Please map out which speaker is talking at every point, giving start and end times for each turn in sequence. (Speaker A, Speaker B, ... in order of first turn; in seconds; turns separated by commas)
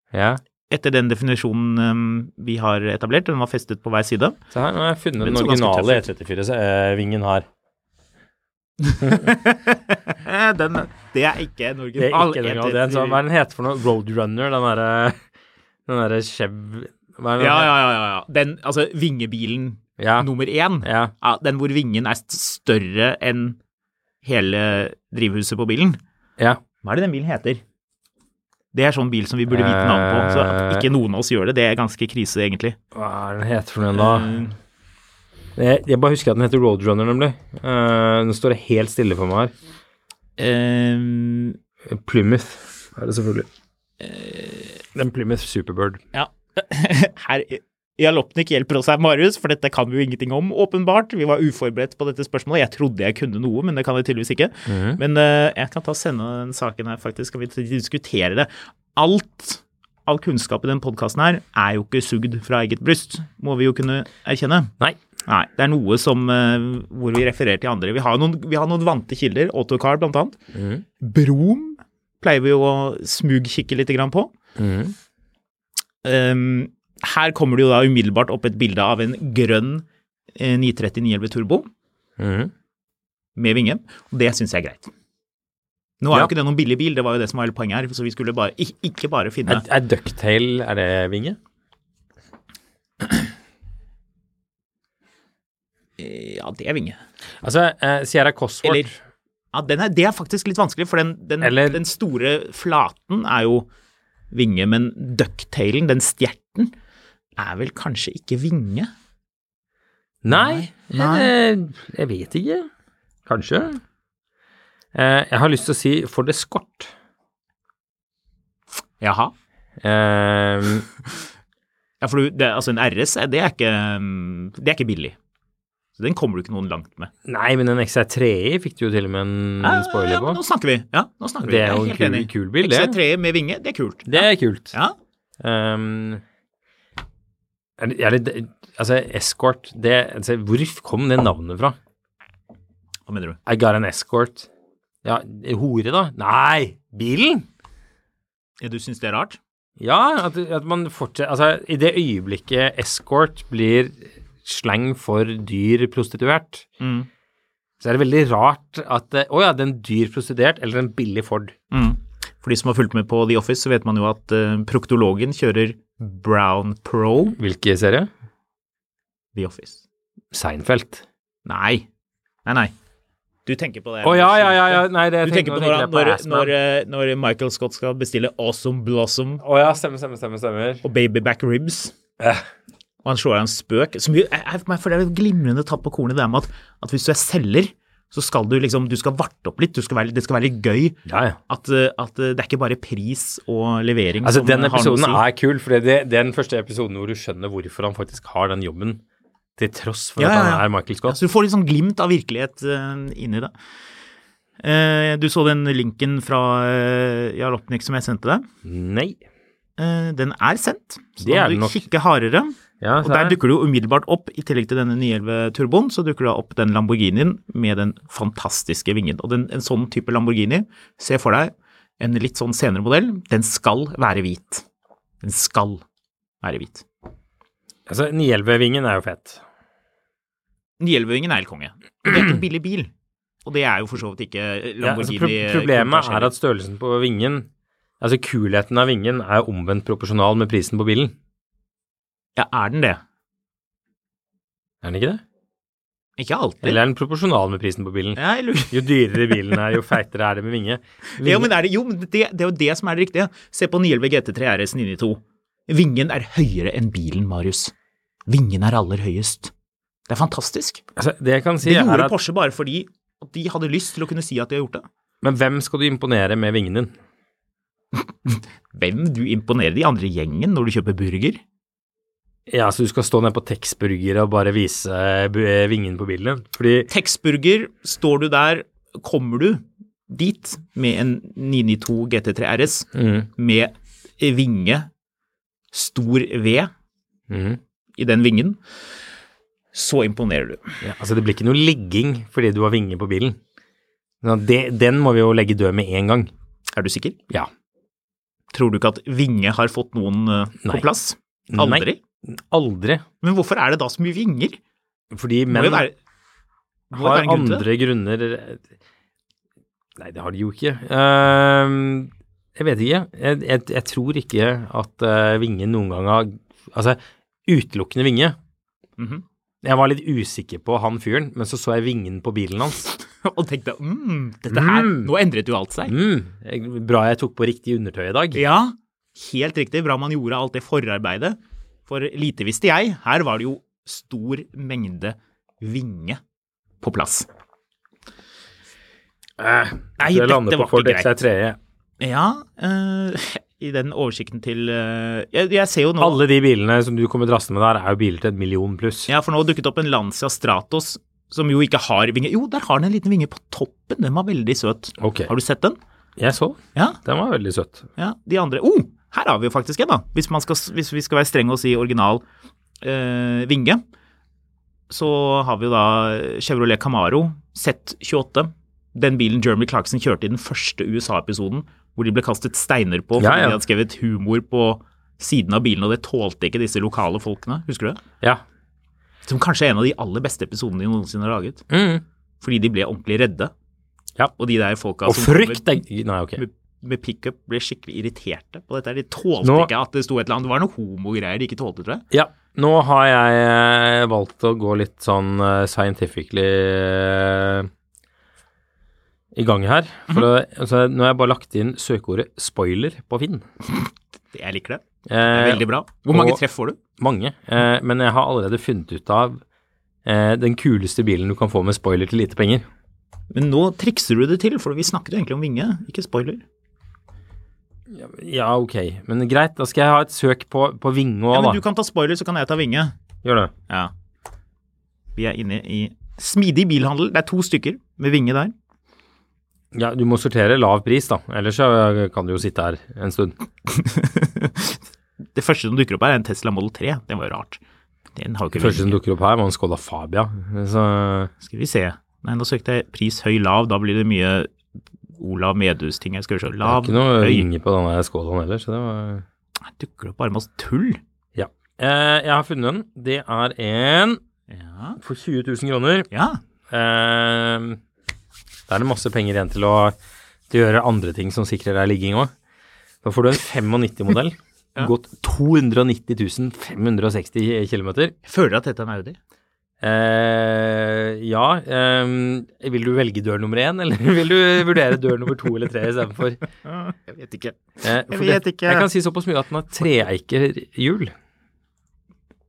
Speaker A: 0.1-0.4, Speaker B: 0.7-4.4, Speaker A: 4.5-7.5, Speaker B: 5.2-6.1, Speaker B: 8.8-13.2, Speaker A: 12.0-15.2, Speaker A: 15.9-17.7, Speaker B: 17.4-23.6, Speaker A: 20.0-20.3, Speaker A: 20.8-21.1, Speaker B: 24.2-26.0, Speaker B: 26.8-27.6, Speaker B: 28.7-32.8, Speaker A: 29.5-30.9, Speaker A: 32.9-34.3, Speaker B: 33.9-34.5, Speaker A: 35.5-39.5, Speaker B: 40.4-41.6, Speaker A: 41.9-43.5, Speaker B: 44.0-44.8, Speaker A: 44.9-46.0, Speaker B: 46.1-64.7, Speaker A: 54.7-55.0, Speaker B: 65.2-70.4, Speaker A: 70.5-70.8, Speaker B: 71.0-74.3, Speaker A: 74.6-74.9, Speaker B: 76.0-81.7, Speaker A: 82.2-82.5, Speaker B: 83.3-84.9, Speaker B: 86.0-89.6, Speaker A: 89.5-91.4, Speaker B: 96.0-97.0, Speaker A: 97.4-99.0, Speaker B: 98.6-98.9, Speaker B: 99.5-103.7, Speaker A: 101.4-101.8, Speaker B: 104.3-106.7, Speaker B: 107.4-108.9, Speaker A: 110.2-112.7, Speaker B: 110.3-111.3, Speaker A: 113.2-113.8, Speaker A: 114.9-116.9, Speaker B: 119.0-119.3, Speaker A: 119.8-120.9, Speaker B: 122.0-125.2, Speaker B: 126.0-127.1, Speaker A: 127.2-130.4, Speaker B: 129.6-134.9, Speaker A: 131.4-133.0, Speaker A: 134.1-134.8, Speaker A: 135.4-136.2, Speaker A: 137.8-141.8, Speaker B: 143.1-143.4, Speaker A: 143.4-144.5, Speaker A: 145.0-147.5, Speaker B: 148.6-149.4, Speaker A: 149.8-156.7, Speaker B: 156.8-157.1, Speaker A: 157.8-161.5, Speaker B: 161.7-167.4, Speaker A: 167.4-168.1, Speaker B: 169.3-169.8, Speaker A: 170.3-171.1, Speaker B: 171.4-171.9, Speaker B: 172.4-172.7, Speaker B: 173.4-179.4, Speaker A: 174.0-176.5, Speaker A: 179.4-180.8, Speaker B: 180.8-181.9, Speaker A: 182.2-182.4, Speaker B: 183.0-195.2, Speaker A: 191.1-191.4, Speaker A: 194.2-199.0, Speaker A: 199.6-201.2, Speaker B: 200.2-203.5, Speaker B: 204.6-208.4, Speaker A: 208.6-209.2, Speaker B: 209.8-224.6, Speaker A: 211.2-211.9, Speaker A: 212.8-213.4, Speaker B: 225.2-225.8, Speaker B: 226.4-226.8, Speaker A: 227.9-229.4, Speaker B: 230.8-232.9, Speaker B: 233.4-236.3, Speaker A: 234.8-237.5, Speaker A: 238.0-241.1, Speaker B: 242.3-243.0, Speaker A: 244.8-245.2, Speaker B: 246.2-246.8, Speaker A: 246.6-251.5, Speaker B: 248.2-249.6, Speaker B: 251.2-257.7, Speaker B: 258.3-259.5, Speaker B: 260.1-260.8, Speaker A: 260.9-262.1, Speaker B: 261.6-264.8, Speaker A: 265.2-266.9, Speaker B: 267.9-271.4, Speaker A: 272.5-276.9, Speaker B: 276.9-284.9, Speaker A: 282.9-283.3, Speaker B: 285.7-286.7, Speaker A: 287.3-287.6, Speaker B: 288.0-288.6, Speaker B: 289.7-290.6, Speaker A: 290.8-293.4, Speaker A: 294.2-296.3, Speaker B: 296.7-297.2, Speaker B: 298.5-302.0, Speaker A: 301.5-303.0, Speaker B: 303.2-304.6, Speaker A: 305.1-305.9, Speaker B: 305.5-305.9, Speaker B: 306.9-307.6, Speaker A: 306.9-308.6, Speaker A: 310.0-318.4, Speaker B: 319.0-319.2, Speaker A: 319.6-322.9, Speaker B: 323.1-325.9, Speaker A: 324.5-325.1, Speaker A: 325.9-328.4, Speaker B: 328.3-336.2, Speaker B: 336.8-337.3, Speaker A: 339.4-341.6, Speaker B: 340.0-341.1, Speaker B: 342.0-346.2, Speaker A: 346.0-349.1, Speaker B: 349.1-355.8, Speaker A: 355.0-355.3, Speaker A: 356.2-357.9, Speaker B: 358.0-362.2, Speaker B: 362.8-363.8, Speaker B: 364.9-378.0, Speaker A: 373.2-373.6, Speaker B: 379.2-381.6, Speaker A: 381.7-382.0, Speaker B: 382.4-383.5, Speaker B: 384.4-385.8, Speaker A: 385.0-386.4, Speaker B: 386.4-392.0, Speaker A: 389.4-389.7, Speaker A: 392.1-397.7, Speaker A: 399.3-403.4, Speaker B: 404.3-406.8, Speaker A: 405.1-406.4, Speaker A: 407.0-409.4, Speaker A: 410.0-412.6, Speaker B: 413.3-416.4, Speaker A: 417.9-421.6, Speaker B: 421.3-422.9, Speaker A: 423.2-423.5, Speaker B: 425.1-428.5, Speaker A: 429.7-433.4, Speaker B: 433.7-434.8, Speaker B: 435.3-437.6, Speaker B: 438.1-439.0, Speaker A: 438.5-441.3, Speaker B: 441.4-444.5, Speaker B: 445.2-447.5, Speaker A: 446.6-449.2, Speaker B: 449.6-451.0, Speaker A: 451.3-454.2, Speaker B: 454.5-455.0, Speaker A: 455.0-456.1, Speaker B: 456.1-456.4, Speaker A: 456.7-457.8, Speaker A: 458.7-459.9, Speaker A: 460.5-462.3, Speaker A: 463.0-468.1, Speaker B: 468.2-469.2, Speaker A: 469.8-476.4, Speaker B: 476.6-478.9, Speaker A: 477.8-481.1